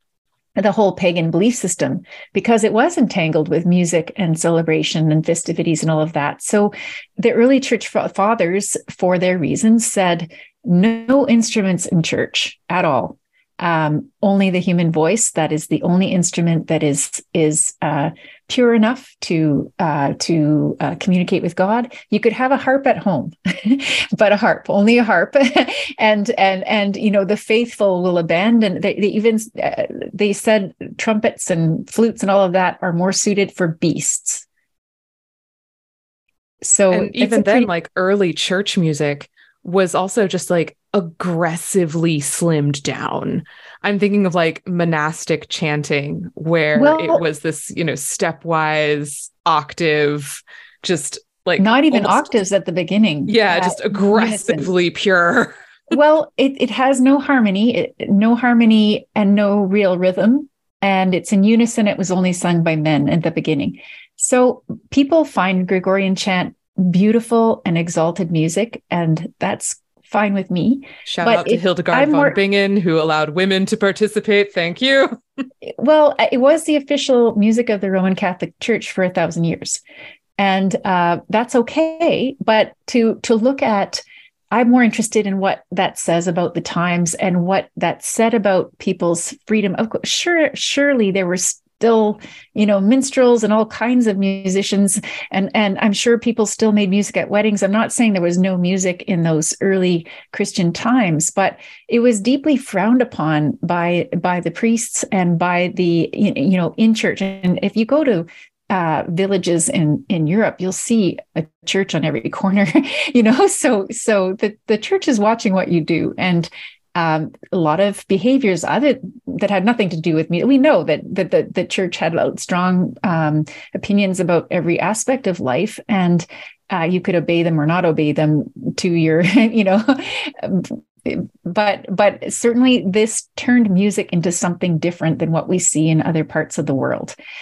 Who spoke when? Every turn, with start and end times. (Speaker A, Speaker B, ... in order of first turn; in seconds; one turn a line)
Speaker A: 0.6-34.5
Speaker A: 36.6-37.7
Speaker B: 36.9-52.4
Speaker A: 46.8-47.2
Speaker A: 51.6-54.7
Speaker B: 53.3-55.5
Speaker A: 55.9-72.4
Speaker B: 71.1-75.2
Speaker A: 75.6-79.8
Speaker A: 80.4-137.2